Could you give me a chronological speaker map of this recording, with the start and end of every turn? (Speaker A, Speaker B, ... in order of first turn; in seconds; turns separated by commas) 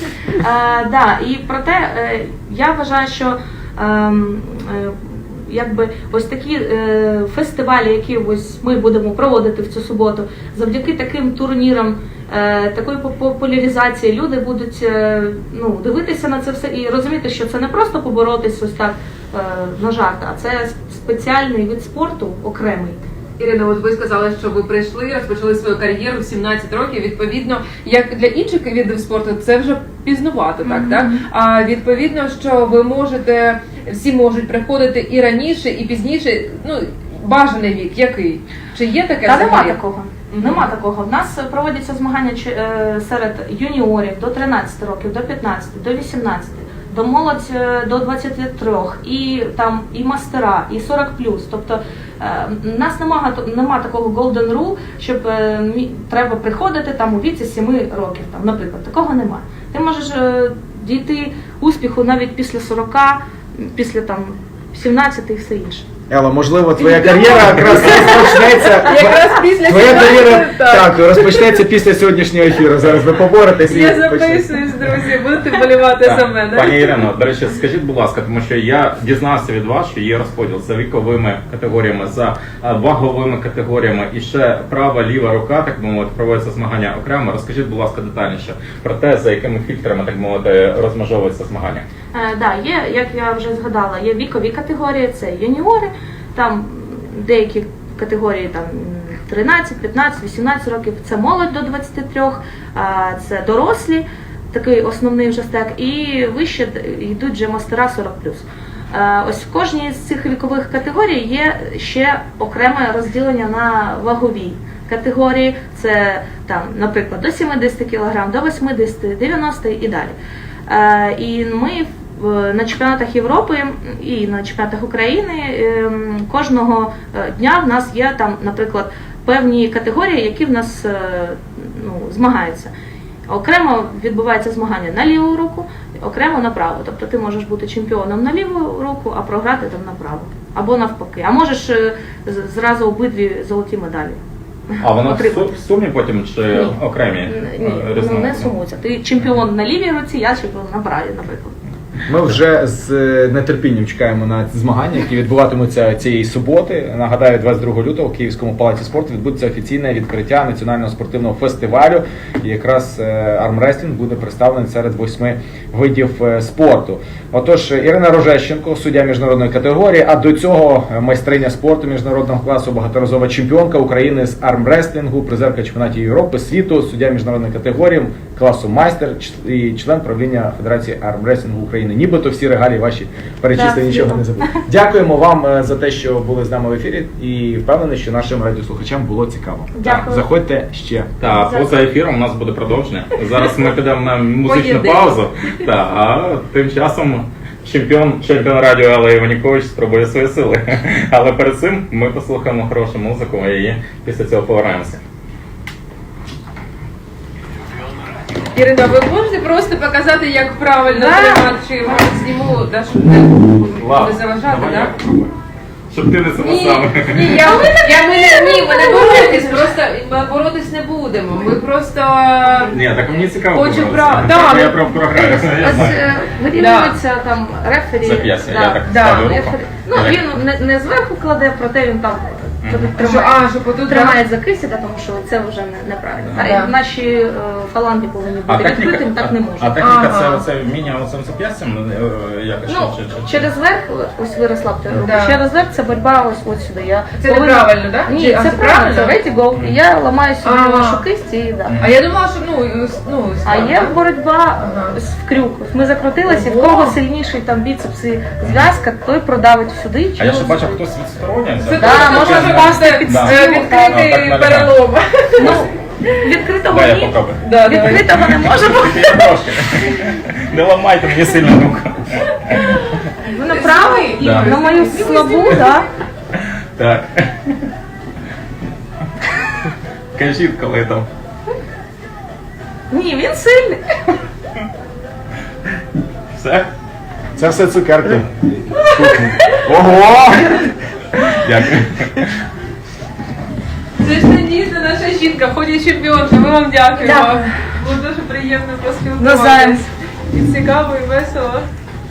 Speaker A: 0.4-23.0, Speaker B: 23.4-39.8, Speaker A: 30.6-31.2, Speaker A: 39.3-65.9, Speaker B: 40.3-40.7, Speaker C: 66.1-74.5, Speaker B: 66.8-71.4, Speaker A: 67.9-68.4, Speaker B: 73.6-77.1, Speaker D: 76.0-91.8, Speaker A: 92.1-120.2, Speaker A: 120.7-132.7, Speaker A: 133.3-144.2, Speaker A: 144.7-145.6, Speaker D: 144.8-148.5, Speaker A: 146.5-151.6, Speaker C: 152.1-191.2, Speaker A: 183.5-184.6, Speaker A: 189.7-190.3, Speaker D: 191.2-205.0, Speaker A: 191.2-191.7, Speaker B: 194.4-195.2, Speaker B: 208.5-214.9, Speaker A: 210.9-211.5, Speaker D: 213.8-215.4, Speaker D: 215.9-217.6, Speaker B: 216.3-222.7, Speaker A: 217.4-219.7, Speaker D: 222.7-226.0, Speaker B: 223.5-225.6, Speaker A: 225.4-239.8, Speaker B: 226.6-227.0, Speaker D: 228.0-230.2, Speaker B: 228.8-229.4, Speaker D: 232.6-232.9, Speaker B: 233.0-234.2, Speaker D: 236.2-236.5, Speaker B: 236.4-236.7, Speaker D: 238.5-243.5, Speaker B: 239.8-240.4, Speaker A: 242.7-251.8, Speaker B: 245.0-245.4, Speaker B: 247.2-249.2, Speaker B: 250.4-251.0, Speaker B: 251.8-254.0, Speaker A: 253.4-260.8, Speaker B: 254.6-255.0, Speaker B: 256.2-257.0, Speaker D: 258.4-258.7, Speaker D: 260.2-264.7, Speaker B: 261.6-266.2, Speaker A: 261.7-264.0, Speaker A: 265.4-269.3, Speaker D: 266.7-272.8, Speaker B: 267.4-268.1, Speaker A: 273.2-275.9, Speaker B: 273.4-275.8, Speaker D: 274.2-274.6, Speaker D: 276.4-277.7, Speaker D: 280.1-281.1, Speaker A: 282.9-283.8, Speaker D: 286.3-286.7, Speaker C: 287.4-290.7, Speaker B: 288.8-289.6, Speaker D: 291.4-292.3, Speaker B: 294.0-301.7, Speaker A: 297.0-297.4, Speaker A: 299.2-299.9